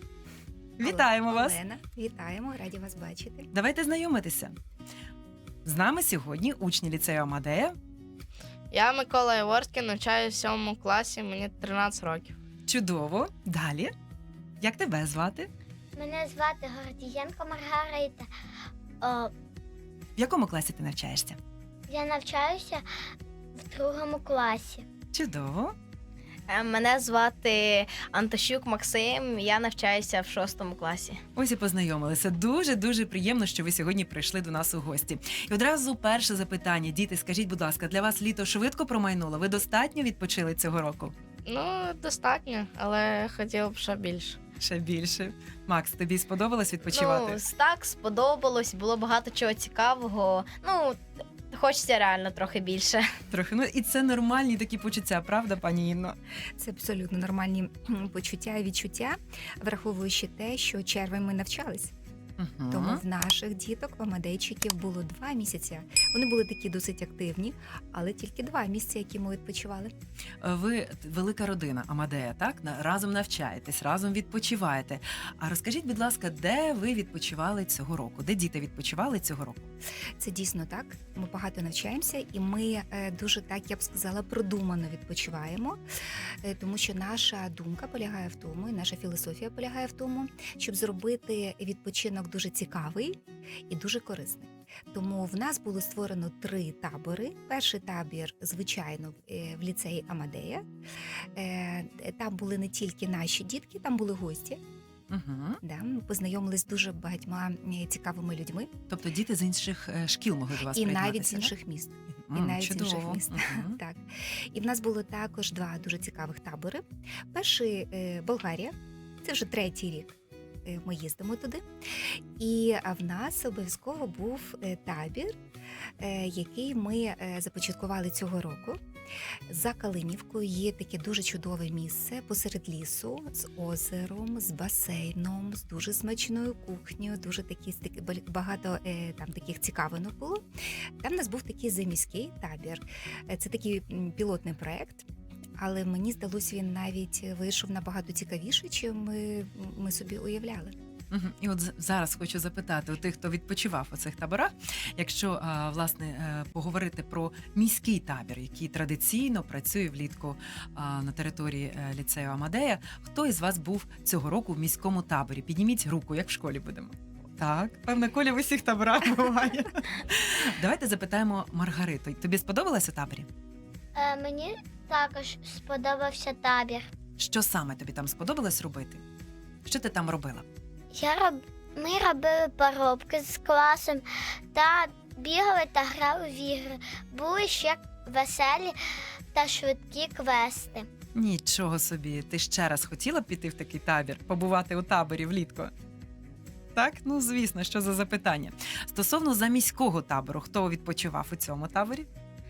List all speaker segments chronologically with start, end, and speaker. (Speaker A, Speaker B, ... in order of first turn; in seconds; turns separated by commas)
Speaker A: 0.8-1.6, Speaker B: 0.8-3.5, Speaker A: 3.5-4.6, Speaker A: 5.6-7.8, Speaker C: 8.7-12.3, Speaker A: 12.7-13.9, Speaker A: 14.6-15.5, Speaker D: 15.9-18.3, Speaker D: 19.0-19.3, Speaker A: 20.2-21.4, Speaker D: 21.9-22.9, Speaker D: 23.6-24.9, Speaker A: 25.1-25.7, Speaker E: 26.5-31.2, Speaker A: 31.4-41.1, Speaker C: 41.5-44.3, Speaker A: 44.6-47.4, Speaker E: 46.9-53.1, Speaker A: 53.3-56.2, Speaker B: 56.6-61.9, Speaker A: 62.4-63.0, Speaker B: 62.7-69.9, Speaker A: 70.4-79.7, Speaker B: 80.2-85.8, Speaker B: 86.4-93.2, Speaker B: 93.7-100.7, Speaker B: 101.3-104.6, Speaker A: 105.1-105.6, Speaker B: 105.6-108.7, Speaker A: 108.9-111.5, Speaker B: 110.7-121.7, Speaker A: 112.2-113.8, Speaker B: 122.4-125.4, Speaker B: 126.0-128.8, Speaker B: 129.5-140.4, Speaker B: 141.0-145.1, Speaker B: 145.6-150.7, Speaker A: 151.1-173.3, Speaker D: 173.9-176.9, Speaker A: 177.2-179.0, Speaker A: 179.7-180.5, Speaker D: 180.9-188.8, Speaker D: 189.3-190.9, Speaker A: 191.2-195.7, Speaker A: 196.8-202.1